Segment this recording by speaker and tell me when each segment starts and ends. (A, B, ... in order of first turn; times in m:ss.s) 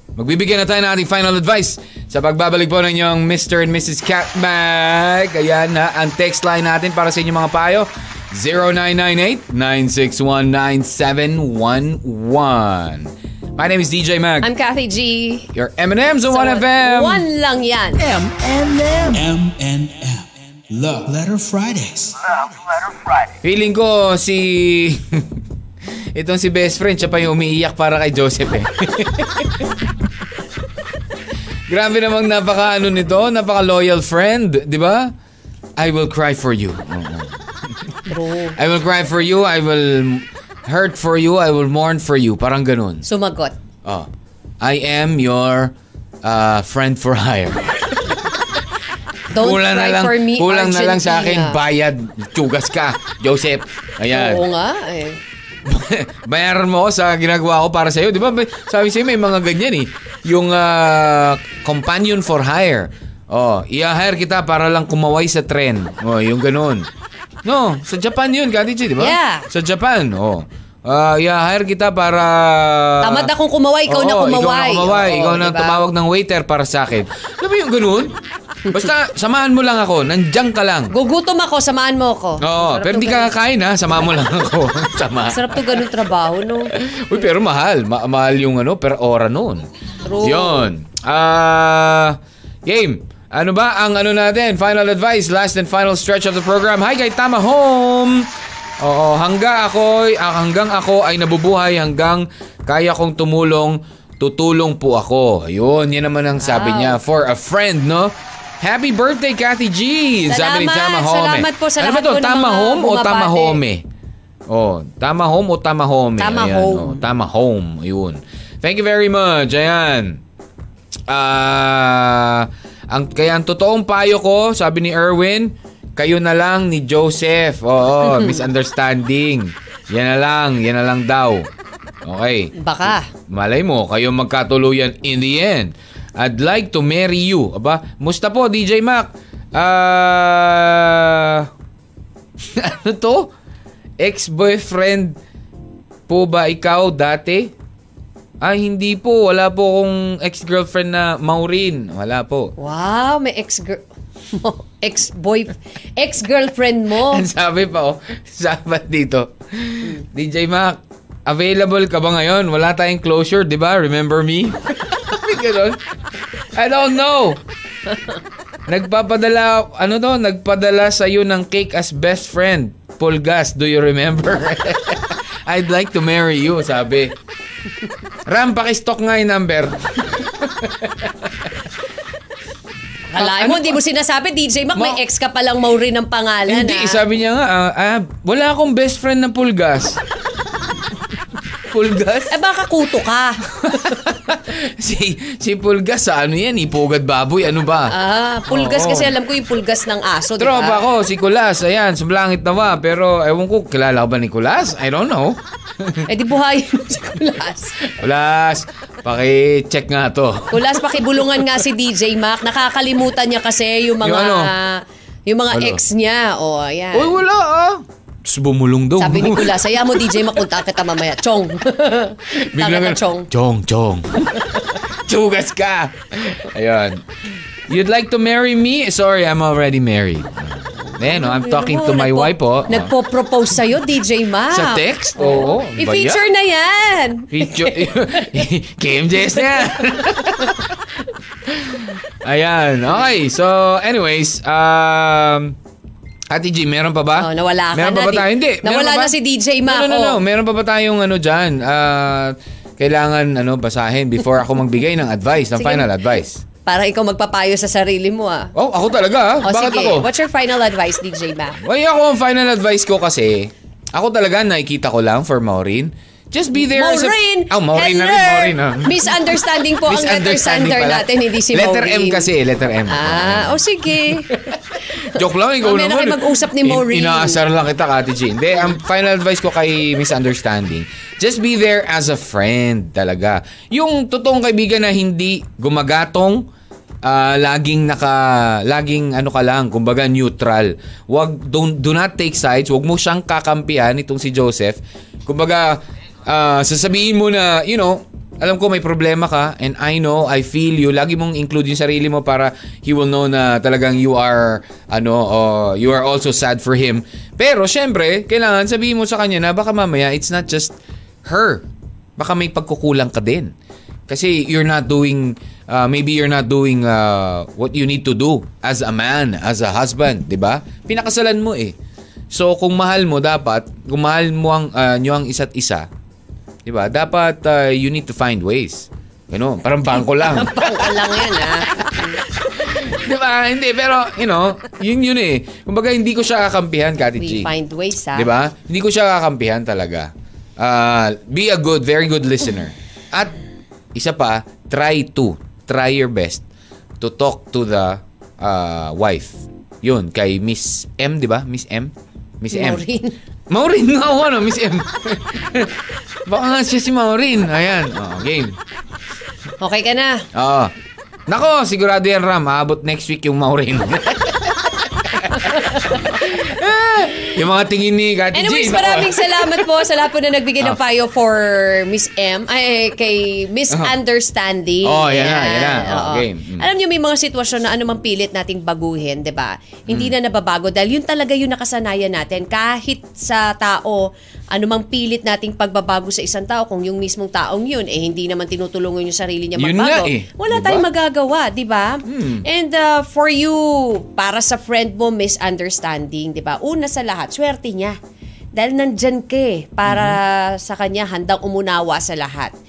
0:00.2-0:14.5 A
0:14.4-0:15.5 B
0:15.5-0:17.2 A
0:16.3-0:18.0 B
0:18.0-0:22.5 C
0:23.4-0:25.4 A
0:26.1-0:29.6 A
0:31.7-0:35.1 A
0:35.8-0:37.4 A
0:38.1-0:38.5 B
0:38.6-0:43.0 A
0:43.0-0:43.6 B
0:44.6-0:45.7 A
0:46.2-0:48.2 A
0:49.3-0:51.6 B
0:49.4-0:54.4 A
0:54.1-0:55.2 B
0:55.6-1:06.8 A
1:07.4-1:13.3 A
1:09.0-1:09.5 B
1:13.0-1:15.8 B
1:13.9-1:18.1 A
1:18.7-1:20.9 A
1:20.9-1:23.3 B
1:22.4-1:25.8 A
1:25.3-1:26.7 B
1:26.7-1:29.6 A
1:30.0-1:30.7 B
1:30.2-1:38.2 A
1:38.8-1:53.8 A
1:46.4-1:47.0 B
1:50.3-1:53.6 B
1:54.5-2:00.2 A
1:56.2-1:57.0 B
2:01.1-2:11.5 A
2:08.0-2:08.4 B
2:12.0-2:21.5 A
2:12.6-2:13.1 B
2:22.5-2:23.3 A
2:24.0-2:25.2 A
2:26.1-2:27.5 A
2:28.4-2:32.5 A
2:32.6-2:37.2 B
2:37.0-2:45.8 A
2:46.5-2:47.4 A
2:48.7-2:57.1 A
2:58.2-3:01.3 A
3:03.1-3:07.0 B
3:03.2-3:03.8 A
3:06.5-3:10.0 A
3:11.7-3:12.4 A
3:12.3-3:13.4 B
3:13.5-3:17.9 A
3:17.9-3:20.8 B
3:18.5-3:19.1 A
3:20.4-3:26.1 A
3:26.1-3:27.8 B
3:27.8-3:31.0 A
3:30.5-3:37.2 B
3:34.0-3:34.5 A
3:35.5-3:35.8 A
3:36.9-3:40.4 A
3:39.0-3:43.3 B
3:42.3-3:44.5 A
3:45.0-3:47.0 A
3:47.7-3:52.9 A
3:51.0-3:58.3 B
3:54.5-3:56.2 A
3:57.3-4:00.7 A
3:59.8-4:00.1 B
4:01.4-4:05.6 A
4:06.3-4:09.1 A
4:07.2-4:10.2 B
4:09.6-4:16.4 A
4:15.6-4:15.9 B
4:16.6-4:18.5 B
4:18.5-4:20.1 A
4:19.4-4:21.6 B
4:21.6-4:46.4 A
4:26.5-4:32.3 B
4:32.9-4:34.3 B
4:35.2-4:37.4 B
4:47.0-5:10.7 A
5:11.2-5:11.6 A
5:12.2-5:13.5 A
5:14.1-5:21.8 A
5:22.3-5:25.9 A
5:26.6-5:31.1 A
5:30.1-5:32.2 B
5:32.5-5:37.5 A
5:37.2-5:38.3 B
5:38.1-5:43.3 A
5:43.9-5:46.4 A
5:47.0-5:52.8 A
5:52.5-5:53.2 B
5:53.5-5:55.8 A
5:56.3-5:58.6 A
5:59.6-6:00.2 B
6:00.3-6:00.7 A
6:01.3-6:09.7 A
6:05.4-6:06.1 B
6:08.3-6:38.0 B
6:13.7-6:14.0 A
6:14.8-6:16.7 A
6:19.9-6:20.1 A
6:29.6-6:30.8 A
6:32.1-6:32.4 A
6:38.5-6:42.5 B
6:39.8-6:40.2 A